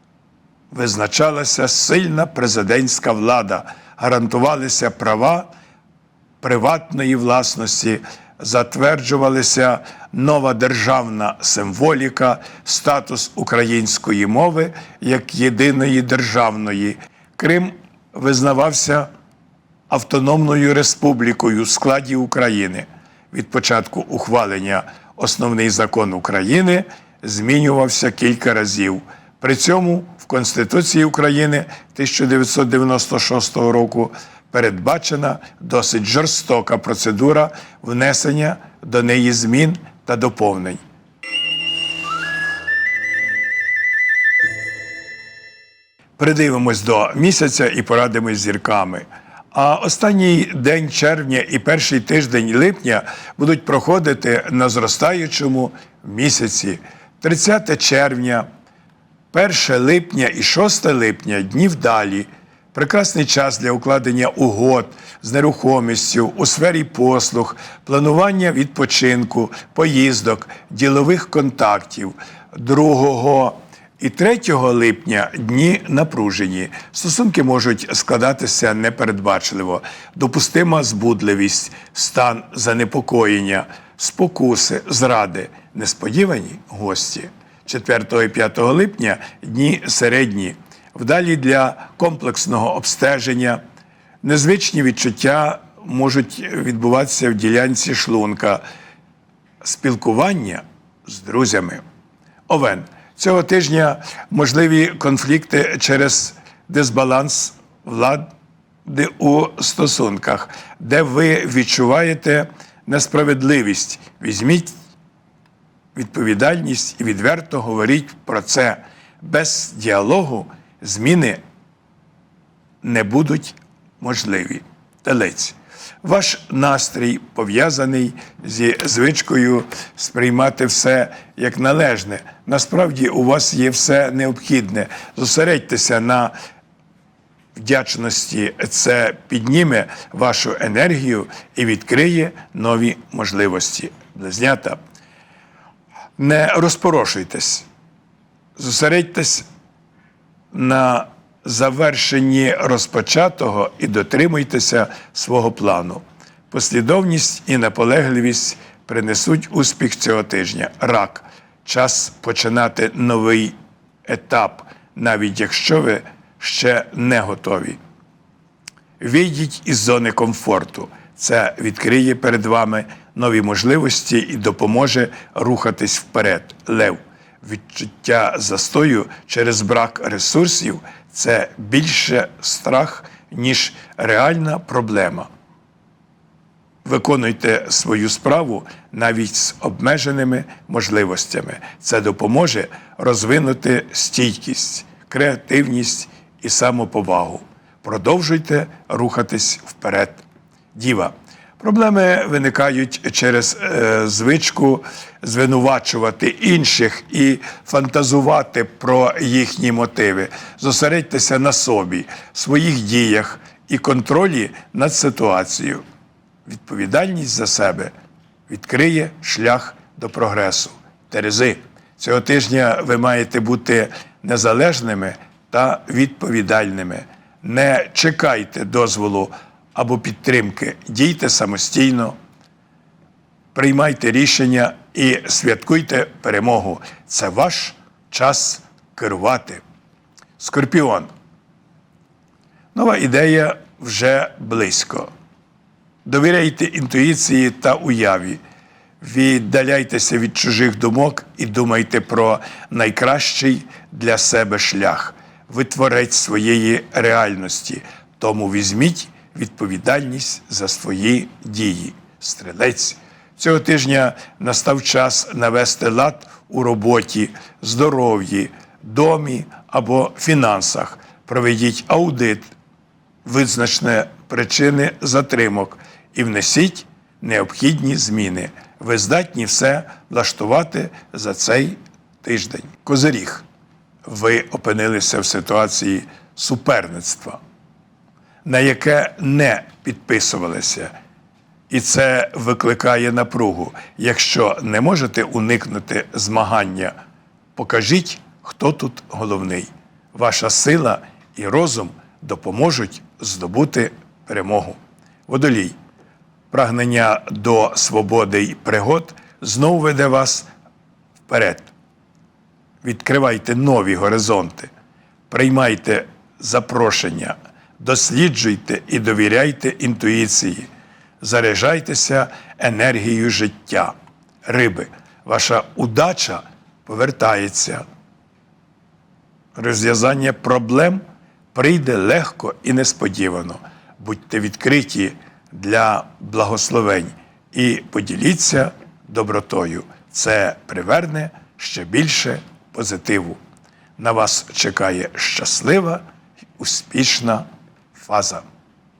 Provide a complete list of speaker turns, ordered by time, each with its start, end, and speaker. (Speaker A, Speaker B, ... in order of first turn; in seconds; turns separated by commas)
Speaker A: 0.7-5.5, Speaker A: 6.4-19.1, Speaker A: 19.9-40.8, Speaker A: 46.2-58.5, Speaker A: 59.3-93.6, Speaker A: 94.2-98.6, Speaker A: 99.6-101.8, Speaker A: 102.5-108.3, Speaker A: 108.8-114.7, Speaker A: 115.9-121.4, Speaker A: 122.8-136.3, Speaker A: 137.6-144.8, Speaker A: 146.2-147.7, Speaker A: 148.6-149.4, Speaker A: 150.5-163.5, Speaker A: 164.1-167.8, Speaker A: 169.0-185.3, Speaker A: 186.8-200.2, Speaker A: 200.7-215.8, Speaker A: 216.4-217.9, Speaker A: 218.5-232.1, Speaker A: 233.5-239.6, Speaker A: 240.4-241.1, Speaker A: 242.7-245.1, Speaker A: 246.0-248.4, Speaker A: 249.0-272.5, Speaker A: 273.2-283.4, Speaker A: 284.0-287.4, Speaker A: 288.4-290.9, Speaker A: 291.7-296.9, Speaker A: 297.6-305.7, Speaker A: 306.5-310.5, Speaker A: 311.3-311.7, Speaker A: 312.8-314.7, Speaker A: 315.3-320.7, Speaker A: 321.2-323.9, Speaker A: 324.4-327.8, Speaker A: 329.6-331.0, Speaker A: 331.5-343.4, Speaker A: 344.0-346.0, Speaker A: 346.6-348.4